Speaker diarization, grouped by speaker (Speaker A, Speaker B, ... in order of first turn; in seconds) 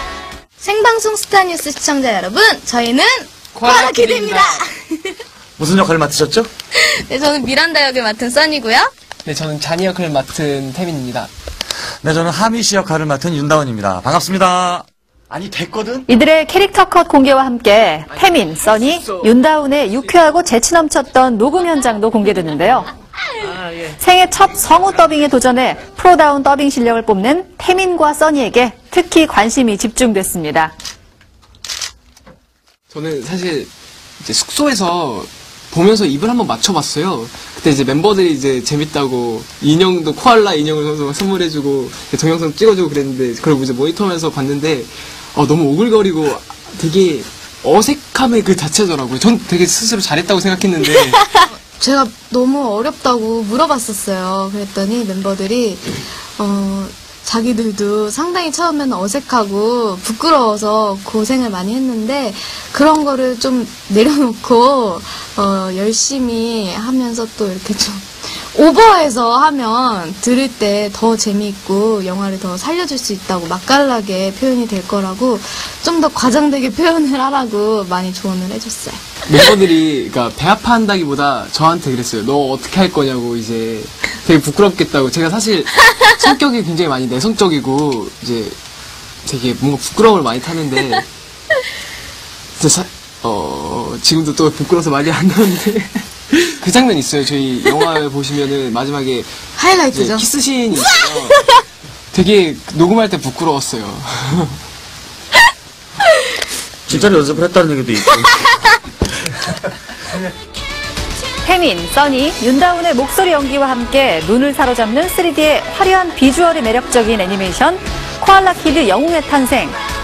Speaker A: 0.6-5.2, 6.7-8.9, 51.3-79.0, 99.6-100.3
Speaker B: 3.5-4.6, 9.2-11.3, 18.1-19.3, 32.9-33.7, 34.2-51.4, 79.3-88.6, 89.2-91.1, 92.6-99.3, 99.9-101.6, 102.1-104.6
Speaker C: 5.6-6.5, 12.0-16.1, 106.9-108.5
Speaker D: 16.1-22.9, 23.6-30.7, 111.4-119.8